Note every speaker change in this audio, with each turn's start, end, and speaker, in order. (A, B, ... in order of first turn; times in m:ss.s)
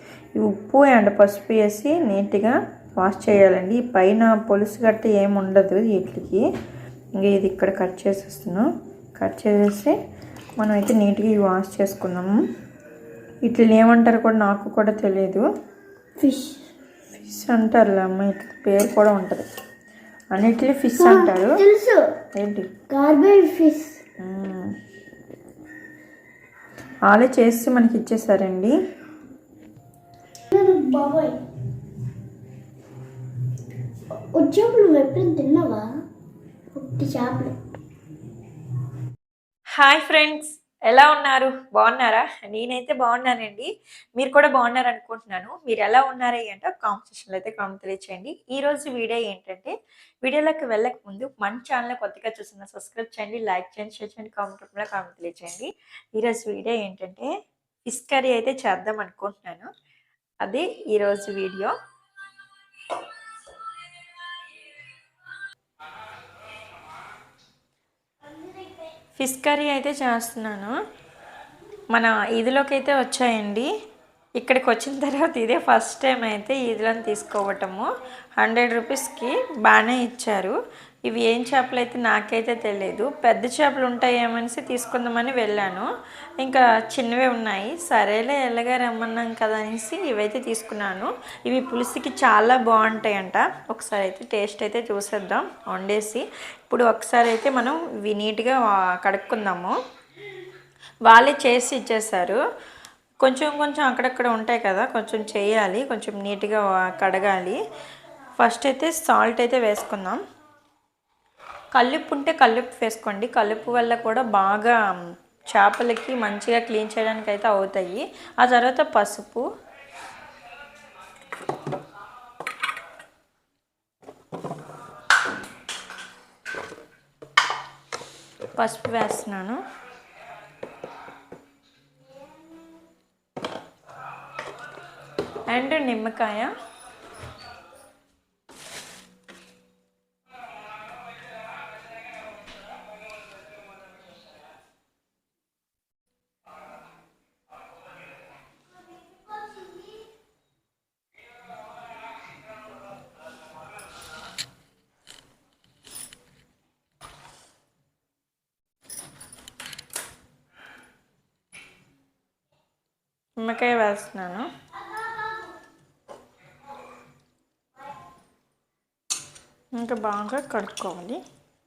0:00.4-0:06.4 A
0:07.2-0:08.7 A
0:09.2-0:10.0 A
0:10.6-0:12.3 A
0:13.4-0:15.4 A
0:16.2-0:16.7 B
0:17.1-0:19.5 A
0:20.3-0:21.6 A
0:21.0-0:22.0 B
0:22.4-0:22.7 A
0:22.9-0:24.0 B
0:24.2-0:24.7 A
0:27.1-0:28.8 A
0:30.5-0:31.4 B
0:34.4-0:35.9 B
0:36.7-0:37.6 B
0:39.8-0:57.3 A
0:57.9-0:59.7 A
1:00.4-1:01.8 A
1:08.2-1:08.9 B
1:09.2-1:10.8 A
1:11.9-1:13.7 A
1:14.4-1:17.9 A
1:18.4-1:39.8 A
1:41.1-1:42.4 A
1:43.2-1:47.6 A
1:48.4-1:50.2 A
1:51.7-1:55.0 A
1:55.5-1:59.4 A
2:08.6-2:09.6 A
2:15.5-2:16.5 A
2:29.4-2:29.8 B
2:43.4-2:44.5 A
2:49.8-2:51.2 A